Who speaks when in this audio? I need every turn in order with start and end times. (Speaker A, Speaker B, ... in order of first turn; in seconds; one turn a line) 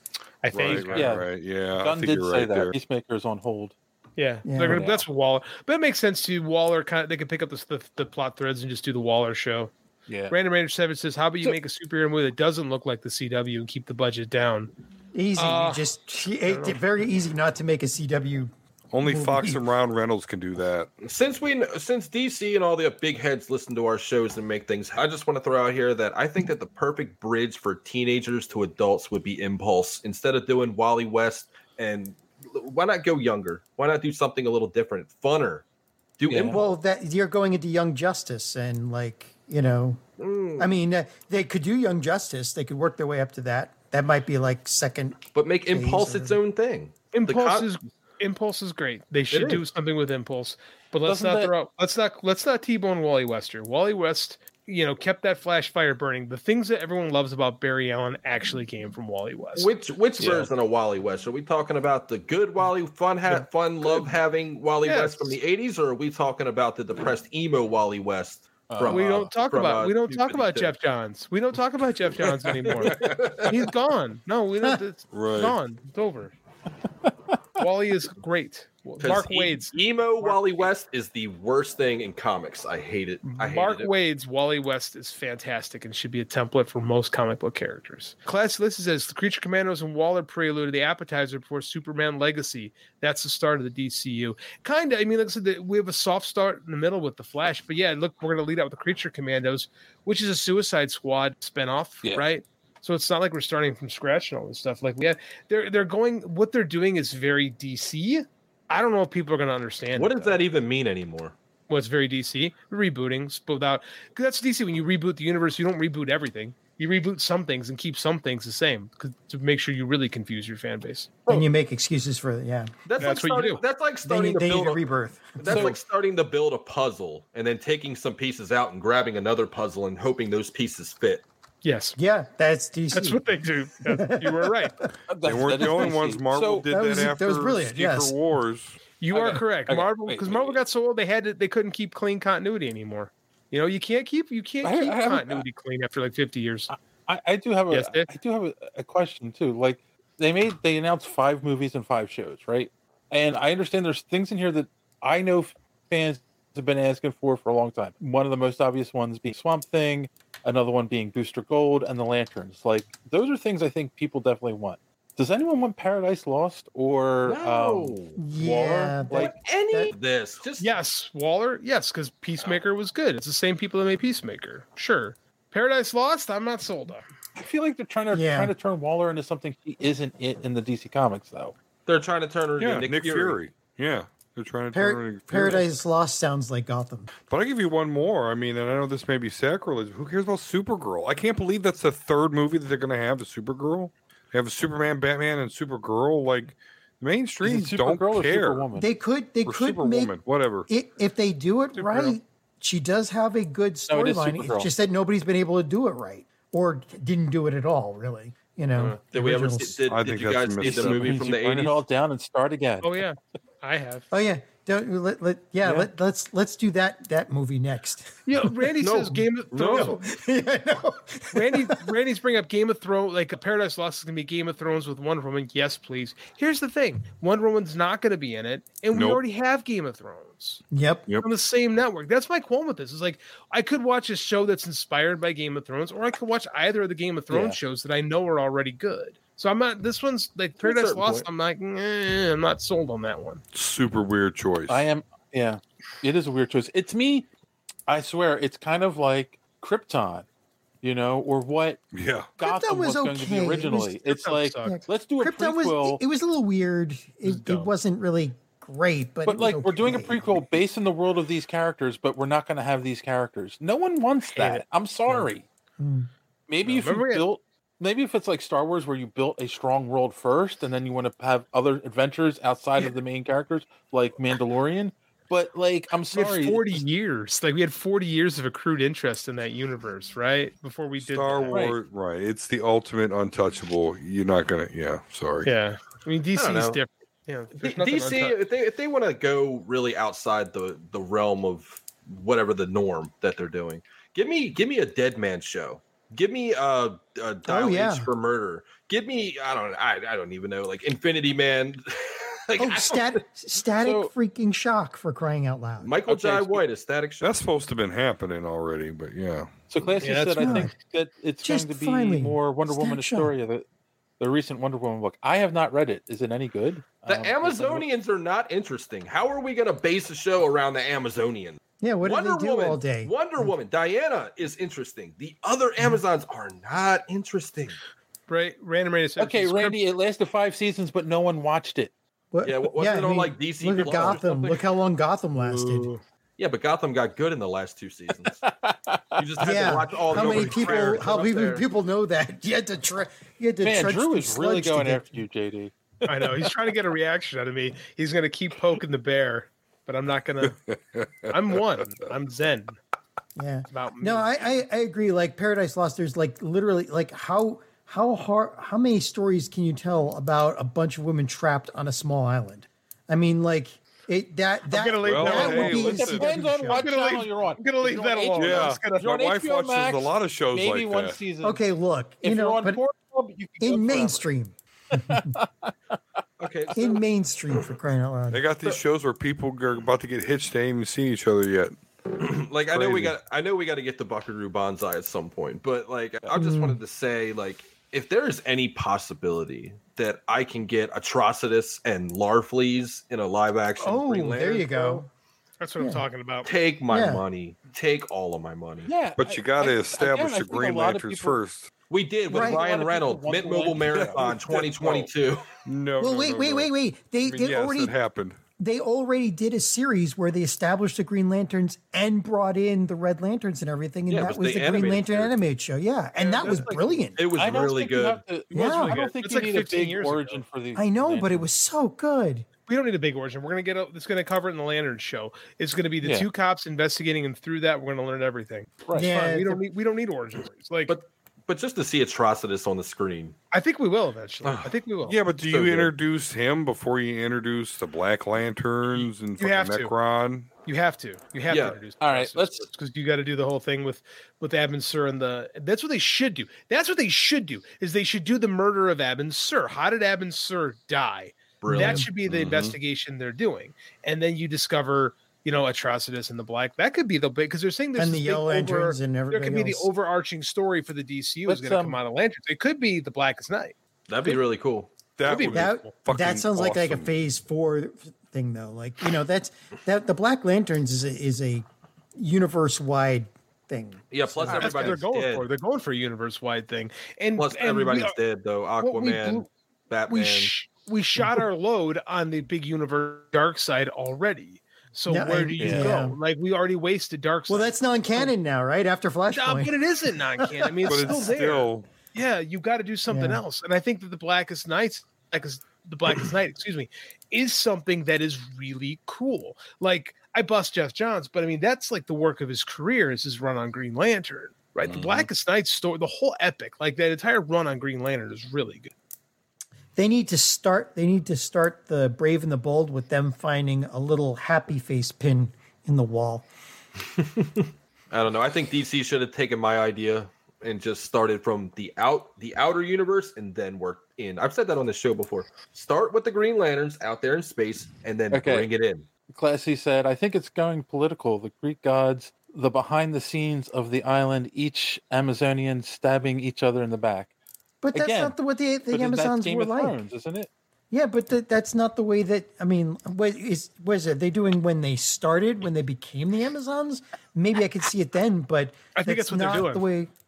Speaker A: 0.4-1.2
Speaker B: 0.5-2.8
Speaker C: 0.9-3.7
Speaker A: 4.2-9.7
Speaker D: 4.4-4.8
Speaker C: 4.7-5.0
Speaker C: 10.1-10.3
Speaker A: 10.3-14.7
Speaker D: 15.1-18.5
Speaker A: 15.3-15.8
Speaker A: 16.4-16.8
Speaker B: 18.9-20.9
Speaker D: 19.0-19.6
Speaker E: 21.0-35.6
Speaker E: 36.2-36.7
Speaker C: 36.3-36.6
Speaker D: 36.5-40.0
Speaker E: 40.2-40.7
Speaker D: 40.6-46.4
Speaker E: 45.3-47.7
Speaker A: 47.1-59.7
Speaker E: 49.3-49.6
Speaker C: 51.0-51.5
Speaker E: 59.5-70.7
Speaker C: 60.2-60.5
Speaker A: 64.8-65.4
Speaker C: 68.7-69.1
Speaker A: 68.9-76.3
Speaker E: 72.8-73.5
Speaker B: 72.9-73.5
Speaker B: 75.1-75.6
Speaker A: 77.6-80.7
Speaker E: 79.0-83.9
Speaker A: 83.2-110.4
Speaker E: 109.9-111.3
Speaker A: 111.7-121.3
Speaker D: 121.2-122.7
Speaker E: 122.8-131.2
Speaker A: 123.0-123.6
Speaker D: 124.0-125.7
Speaker C: 125.5-125.8
Speaker A: 131.6-131.9
Speaker D: 131.9-133.2
Speaker A: 132.9-134.7
Speaker D: 133.8-134.7
Speaker C: 135.1-136.7
Speaker B: 135.2-138.8
Speaker D: 136.7-138.2
Speaker A: 139.0-146.7
Speaker C: 139.1-140.6
Speaker C: 144.6-145.4
Speaker C: 146.7-169.3
Speaker A: 147.7-148.1
Speaker E: 167.2-168.2
Speaker D: 168.2-169.9
Speaker E: 169.1-170.7
Speaker A: 170.6-177.1
Speaker C: 177.3-181.5
Speaker D: 178.1-178.5
Speaker E: 181.8-183.4
Speaker B: 182.6-185.7
Speaker D: 184.7-187.1
Speaker B: 187.3-198.7
Speaker C: 197.4-198.9
Speaker D: 198.8-200.1
Speaker B: 199.4-200.7
Speaker D: 200.7-209.8
Speaker A: 201.7-202.2
Speaker C: 203.9-204.7
Speaker E: 208.8-211.8
Speaker B: 209.9-211.3
Speaker C: 210.6-213.0
Speaker A: 212.8-214.1
Speaker D: 214.1-218.4
Speaker A: 218.3-220.1
Speaker E: 218.8-220.0
Speaker D: 219.6-221.8
Speaker A: 221.3-230.6
Speaker B: 228.9-229.2
Speaker D: 230.7-231.1
Speaker A: 231.2-243.4
Speaker C: 237.3-237.6
Speaker E: 240.6-241.3
Speaker B: 243.5-244.8
Speaker C: 244.7-247.3
Speaker C: 247.9-250.2
Speaker C: 250.8-251.8
Speaker B: 251.9-252.3
Speaker D: 252.4-253.9
Speaker C: 252.4-256.0
Speaker A: 254.0-254.8
Speaker D: 254.6-260.4
Speaker A: 257.2-257.7
Speaker C: 259.2-265.4
Speaker A: 264.3-265.3
Speaker D: 265.8-266.1
Speaker C: 266.5-276.8
Speaker A: 266.6-267.2
Speaker A: 276.1-281.6
Speaker B: 281.0-285.5
Speaker C: 281.5-281.8
Speaker A: 285.4-288.4
Speaker E: 286.3-286.8
Speaker E: 287.6-303.2
Speaker D: 297.4-298.1
Speaker D: 302.6-305.9
Speaker C: 303.8-304.1
Speaker E: 305.8-307.3
Speaker C: 306.1-306.6
Speaker B: 307.2-309.5
Speaker C: 309.7-313.6
Speaker A: 310.0-310.7
Speaker D: 310.4-310.7
Speaker D: 311.4-313.3
Speaker C: 314.2-317.9
Speaker E: 317.1-327.8
Speaker D: 321.8-323.5
Speaker A: 328.3-329.8
Speaker C: 329.2-331.9
Speaker D: 332.3-335.9
Speaker E: 332.4-334.4
Speaker C: 333.9-334.2
Speaker A: 335.4-336.0
Speaker E: 336.4-338.4
Speaker C: 338.4-340.5
Speaker E: 339.2-341.6
Speaker D: 339.4-345.2
Speaker C: 343.6-346.5
Speaker A: 346.1-350.6
Speaker B: 350.4-352.0
Speaker A: 351.3-352.8
Speaker D: 353.4-366.9
Speaker A: 353.7-354.6
Speaker A: 364.7-366.1
Speaker B: 365.0-366.3
Speaker C: 365.3-371.6
Speaker A: 366.6-369.1
Speaker B: 368.4-371.2
Speaker D: 371.4-372.8
Speaker C: 372.2-374.3
Speaker D: 373.6-375.3
Speaker C: 374.9-376.0
Speaker E: 376.4-377.0
Speaker D: 376.7-378.4
Speaker B: 378.3-381.7
Speaker E: 382.2-394.7
Speaker B: 382.7-383.1
Speaker D: 386.3-386.8
Speaker D: 393.8-395.1
Speaker A: 394.6-395.0
Speaker A: 395.6-396.5
Speaker D: 395.8-396.0
Speaker E: 396.4-398.9
Speaker D: 396.9-397.2
Speaker C: 398.9-401.4
Speaker B: 399.2-401.7
Speaker E: 401.9-405.4
Speaker C: 402.3-404.4
Speaker D: 402.3-402.6
Speaker B: 403.9-405.0
Speaker B: 405.6-406.7
Speaker D: 406.0-407.9
Speaker B: 407.2-408.4
Speaker D: 408.6-417.2
Speaker E: 414.1-415.4
Speaker A: 416.1-417.1
Speaker E: 417.1-418.2
Speaker C: 417.3-421.4
Speaker D: 418.5-419.0
Speaker A: 418.6-420.4
Speaker D: 420.7-422.5
Speaker A: 422.7-430.9
Speaker C: 426.0-426.3
Speaker C: 428.9-429.1
Speaker D: 428.9-429.6
Speaker E: 430.9-433.4
Speaker A: 433.5-435.2
Speaker E: 434.4-434.7
Speaker B: 435.0-440.5
Speaker E: 435.3-435.9
Speaker A: 439.0-439.9
Speaker A: 440.6-463.7
Speaker E: 441.5-441.8
Speaker C: 442.0-442.7
Speaker E: 451.6-452.7
Speaker D: 451.7-452.1
Speaker D: 457.9-459.9
Speaker C: 461.4-462.0
Speaker E: 464.1-464.9
Speaker B: 465.2-467.1
Speaker A: 465.2-465.9
Speaker D: 465.5-475.0
Speaker E: 474.1-475.5
Speaker A: 474.5-478.2
Speaker E: 477.4-480.5
Speaker A: 478.8-479.5
Speaker A: 480.1-488.3
Speaker D: 485.1-486.2
Speaker C: 485.6-485.9
Speaker D: 487.5-491.2
Speaker A: 489.3-508.9
Speaker B: 490.8-491.9
Speaker D: 493.1-493.4
Speaker D: 509.9-516.5
Speaker E: 517.2-529.1
Speaker C: 528.3-528.7
Speaker C: 529.3-537.3
Speaker D: 537.8-540.0
Speaker C: 537.9-538.4
Speaker C: 538.9-540.5
Speaker D: 540.9-550.1
Speaker A: 548.9-549.8